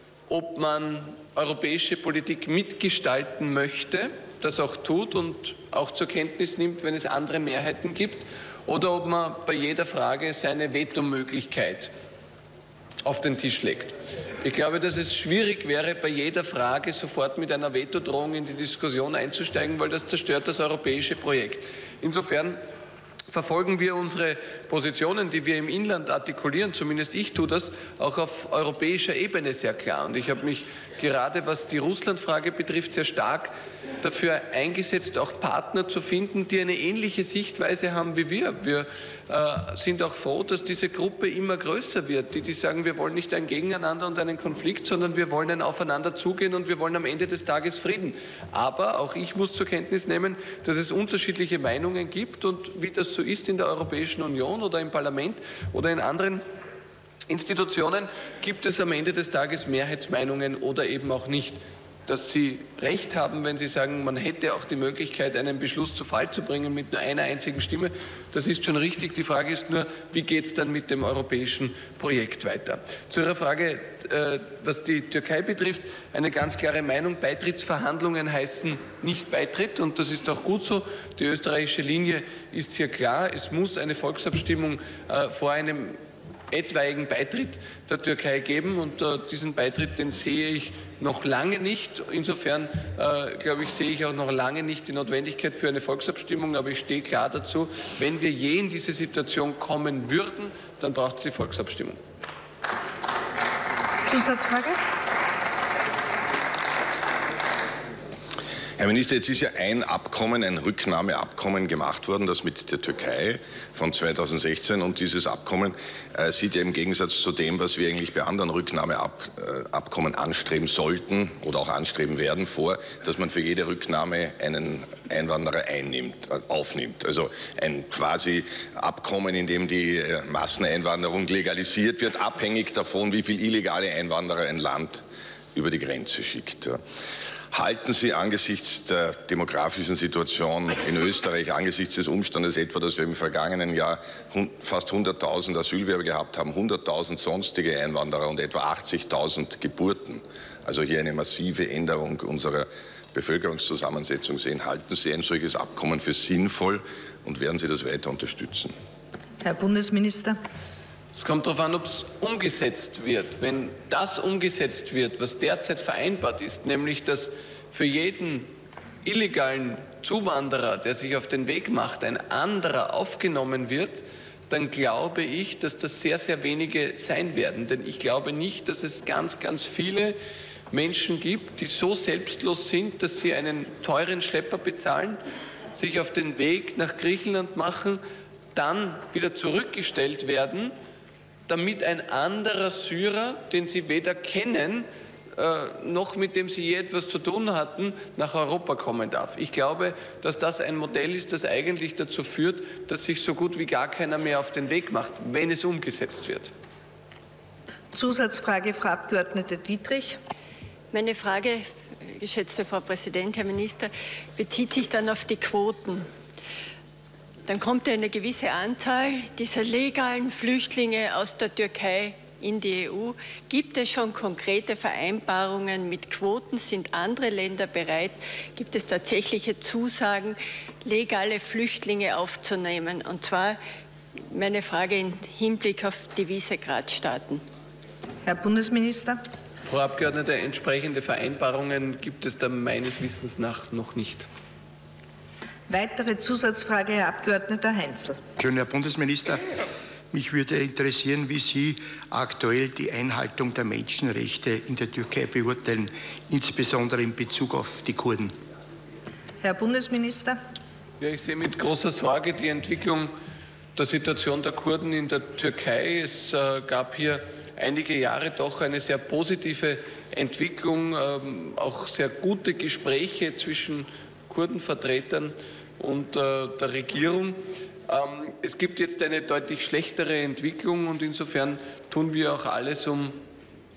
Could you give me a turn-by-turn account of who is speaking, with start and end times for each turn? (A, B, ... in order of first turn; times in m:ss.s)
0:00.3-0:11.9 A
0:13.0-0:22.6 A
0:23.3-0:33.5 A
0:34.0-0:56.4 A
0:57.3-1:26.0 A
1:26.5-1:42.0 A
1:44.1-1:44.8 B
1:48.8-2:16.8 C
2:17.5-2:38.7 C
2:39.4-2:40.4 B
2:41.1-2:48.5 A
2:49.0-3:00.1 A
3:00.7-3:05.2 A
3:05.7-3:08.0 A
3:08.5-3:10.7 A
3:11.5-3:26.5 A
3:27.9-3:30.2 B
3:30.9-3:36.0 D
3:37.5-3:53.6 D
3:54.3-3:57.4 D
3:58.2-3:59.2 B
3:59.6-4:04.3 A
4:05.7-4:08.2 B
4:08.4-4:09.5 E
4:10.1-4:18.3 E
4:19.4-4:20.4 B
4:21.0-4:23.1 A
4:23.8-4:43.2 A